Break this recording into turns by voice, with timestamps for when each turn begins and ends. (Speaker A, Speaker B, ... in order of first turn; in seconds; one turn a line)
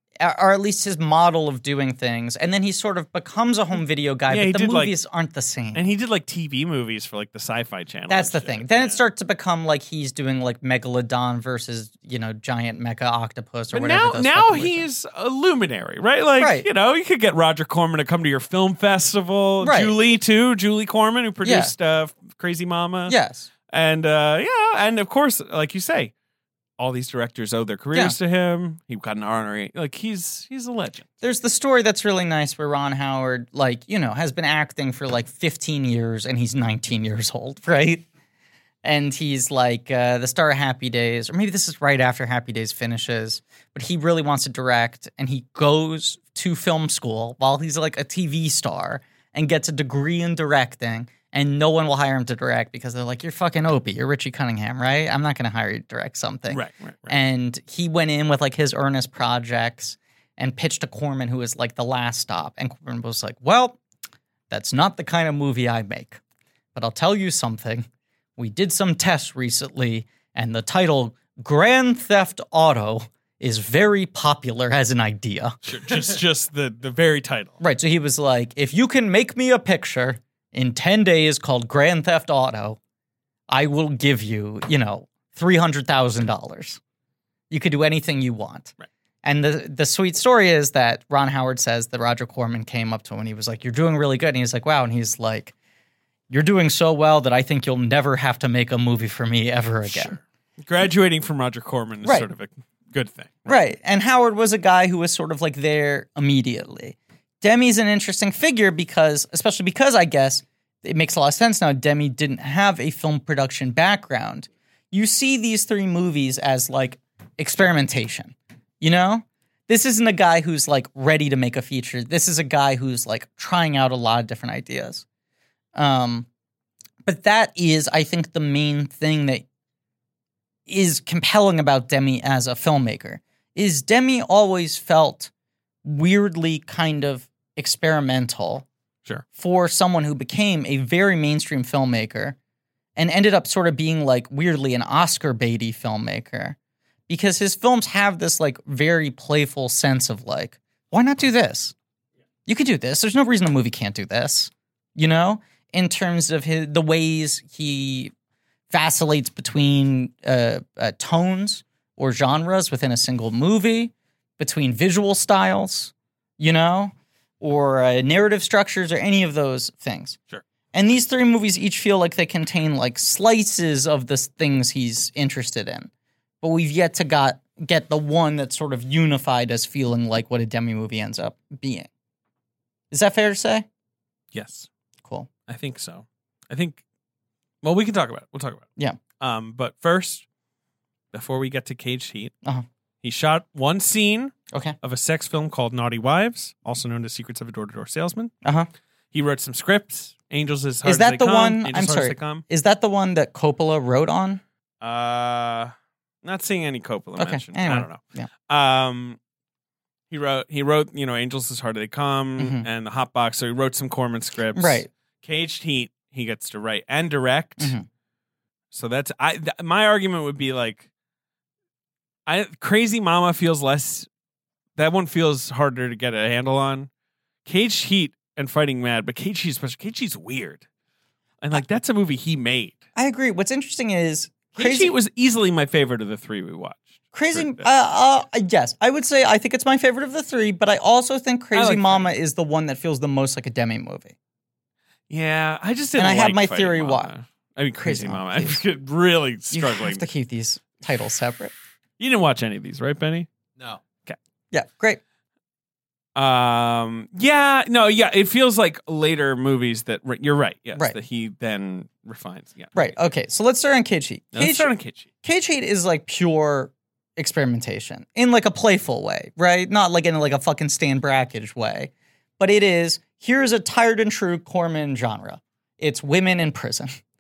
Speaker A: 0.2-5.8
Speaker B: 4.3-5.0
Speaker B: 5.8-9.0
Speaker A: 8.1-14.9
Speaker B: 13.7-23.2
Speaker A: 16.4-16.7
Speaker A: 19.6-19.9
Speaker A: 21.4-21.7
Speaker A: 23.1-23.5
Speaker B: 23.7-26.1
Speaker B: 26.8-31.1
Speaker A: 31.2-38.0
Speaker A: 38.8-63.8
Speaker B: 56.5-57.1
Speaker A: 64.5-66.2
Speaker A: 66.8-67.9
Speaker A: 68.4-75.7
Speaker B: 75.7-77.6
Speaker A: 77.6-82.8
Speaker A: 83.5-86.8
Speaker A: 87.5-95.5
Speaker A: 96.3-100.2
Speaker B: 99.8-103.5
Speaker A: 102.0-102.3
Speaker A: 103.5-125.0
Speaker A: 125.8-126.3
Speaker A: 127.0-129.4
Speaker A: 130.7-135.3
Speaker A: 135.8-138.7
Speaker A: 139.4-142.4
Speaker A: 143.0-146.6
Speaker A: 147.1-151.7
Speaker A: 152.5-158.1
Speaker A: 158.7-170.2
Speaker A: 170.7-175.9
Speaker A: 176.4-181.9
Speaker A: 182.9-183.7
Speaker B: 184.3-184.7
Speaker B: 185.5-186.8
Speaker B: 187.6-188.7
Speaker B: 189.2-190.2
Speaker B: 191.1-192.3
Speaker B: 193.0-198.3
Speaker A: 194.5-194.8
Speaker A: 198.4-198.7
Speaker B: 199.1-202.4
Speaker A: 200.8-204.4
Speaker B: 204.8-209.2
Speaker A: 207.2-208.3
Speaker B: 210.1-217.8
Speaker A: 212.4-212.7
Speaker A: 214.6-214.9
Speaker A: 217.6-217.9
Speaker B: 218.7-220.8
Speaker B: 222.3-224.1
Speaker B: 224.8-226.9
Speaker B: 227.5-230.6
Speaker B: 231.4-232.8
Speaker A: 233.0-234.9
Speaker B: 234.6-237.7
Speaker A: 237.1-244.1
Speaker B: 241.5-242.1
Speaker B: 245.1-250.1
Speaker A: 246.0-247.1
Speaker A: 247.8-248.6
Speaker A: 249.5-251.5
Speaker B: 252.0-253.3
Speaker A: 254.5-255.0
Speaker B: 256.1-263.1
Speaker A: 262.8-276.9
Speaker B: 264.3-265.1